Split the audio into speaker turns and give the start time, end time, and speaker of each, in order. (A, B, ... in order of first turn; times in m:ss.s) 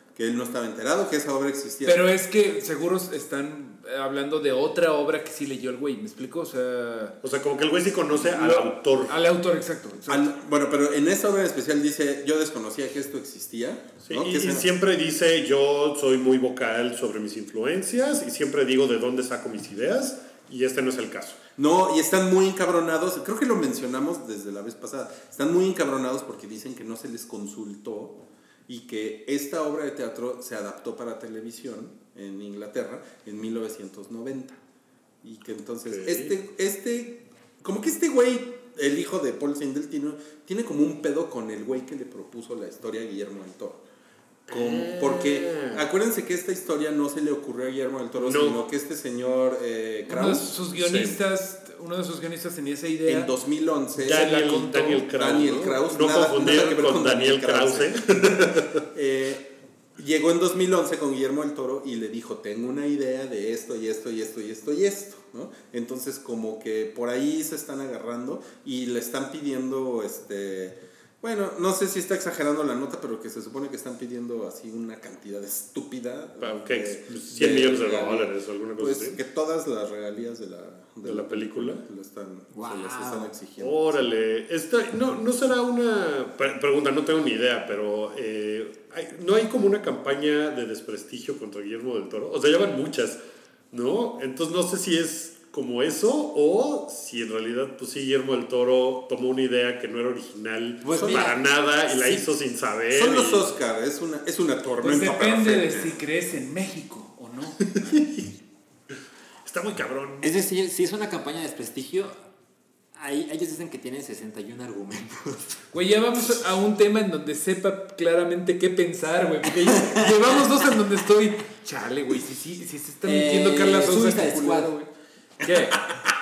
0:00.2-0:02.0 A
0:01.8-0:07.2 B
0:07.2-0:09.1 C
0:08.2-0:10.3 B
0:10.1-0:14.6 A
0:14.0-0:21.4 C
0:21.6-0:34.6 A
0:35.2-0:43.8 A
0:35.9-0:36.3 C
0:44.5-0:45.8 C
0:44.5-0:51.1 A
0:48.2-0:48.6 C
0:50.1-0:53.3 B
0:50.8-0:51.1 C
0:53.1-0:54.3 A
0:54.0-0:58.8 C
0:54.1-0:55.1 B
0:55.1-0:59.4 A
1:00.0-1:24.1 A
1:16.4-1:19.2 C
1:21.0-1:21.8 C
1:22.5-1:23.3 D
1:23.6-1:33.2 C
1:33.7-1:43.5 C
1:40.8-1:41.4 D
1:41.0-1:41.3 A
1:42.9-1:46.0 A
1:44.8-1:47.9 B
1:49.4-1:50.3 C
1:50.2-1:52.2 D
1:52.9-1:55.4 D
1:55.7-2:04.9 B
1:59.7-2:00.4 D
2:03.0-2:04.7 D
2:05.4-2:05.9 B
2:05.4-2:06.0 A